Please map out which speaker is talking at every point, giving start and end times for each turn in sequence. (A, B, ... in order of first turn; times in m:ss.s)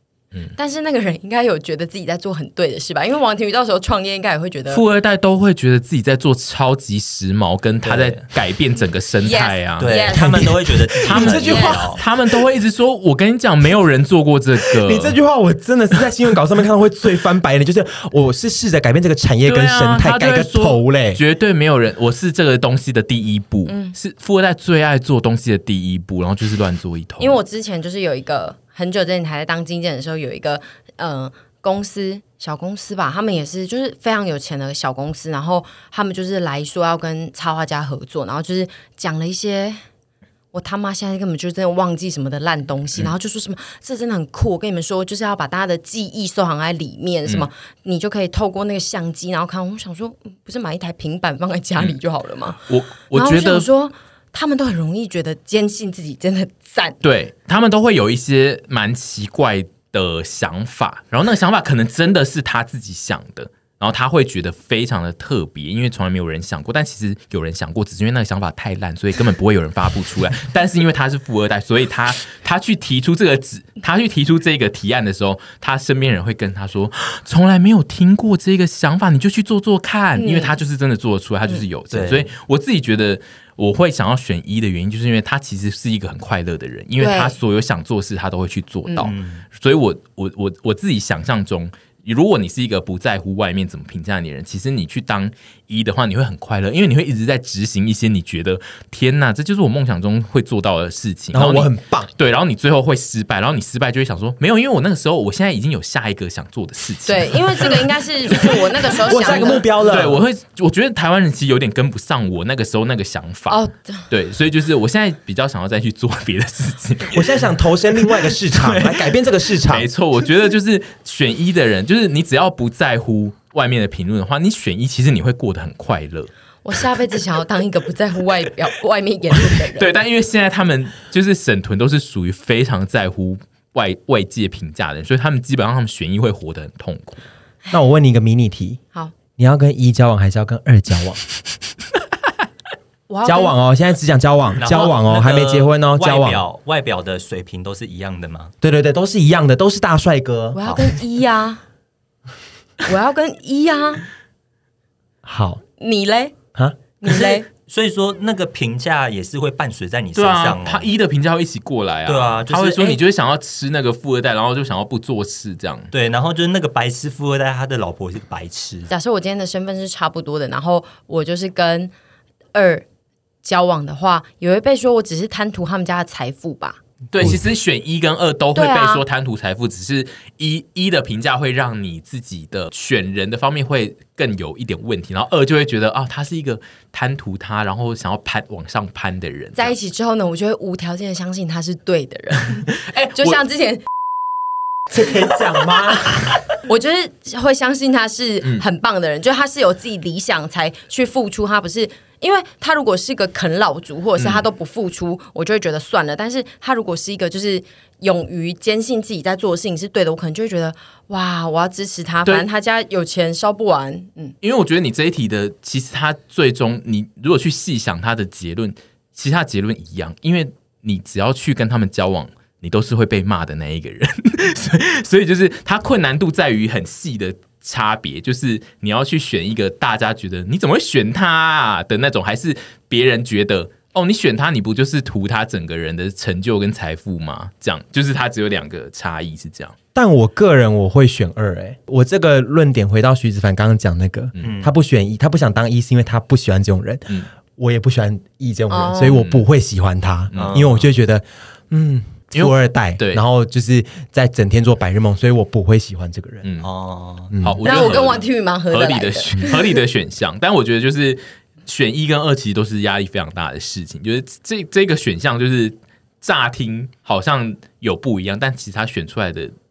0:00.5-0:04.8 A
0:04.7-0:10.0 B
0:07.8-0:08.2 C
0:09.2-0:10.4 A
0:09.8-0:12.0 C
0:10.1-0:12.0 D
0:11.0-0:15.2 B
0:11.4-0:11.8 A
0:14.8-0:21.2 D
0:19.4-0:27.4 B
0:23.7-0:23.9 A
0:27.2-0:39.8 A
0:40.5-0:57.0 A
0:52.6-0:53.7 B
0:57.0-2:06.3 B
1:20.2-1:20.6 A
1:21.9-1:22.3 C
1:27.0-1:27.4 A
1:29.0-1:29.4 C
1:41.3-1:42.1 D
1:47.1-1:49.7 A
1:49.0-1:50.2 D
1:53.5-1:54.1 A
1:57.1-1:59.9 D
2:06.6-2:10.0 A
2:09.7-2:17.2 B
2:17.7-2:18.8 D
2:19.4-2:21.2 D
2:23.1-2:23.5 A
2:23.2-2:26.4 D
2:24.6-2:28.5 C
2:28.6-2:30.9 D
2:30.5-2:31.6 A
2:32.8-2:34.0 A
2:35.2-2:35.6 D
2:35.8-2:36.4 A
2:37.0-2:37.5 A
2:37.3-2:40.9 C
2:40.1-2:45.9 B
2:42.0-2:43.0 C
2:45.9-2:48.9 C
2:48.9-2:51.9 A
2:52.5-2:52.8 A
2:53.4-2:56.8 A
2:57.1-3:09.7 B
2:57.2-2:57.4 D
2:58.5-2:59.0 A
3:09.5-3:13.8 A
3:12.8-3:13.4 B
3:14.9-3:16.3 D
3:16.6-3:34.3 A
3:24.2-3:24.4 B
3:34.4-3:59.7 B
3:59.9-4:16.5 D
4:04.4-4:04.7 C
4:08.7-4:09.2 A
4:09.0-4:09.4 B
4:10.3-4:10.7 B
4:10.3-4:10.9 C
4:12.3-4:13.2 B
4:16.4-4:16.7 B
4:16.6-4:17.3 C
4:17.3-4:17.7 D
4:17.3-4:29.5 B
4:17.6-4:19.6 A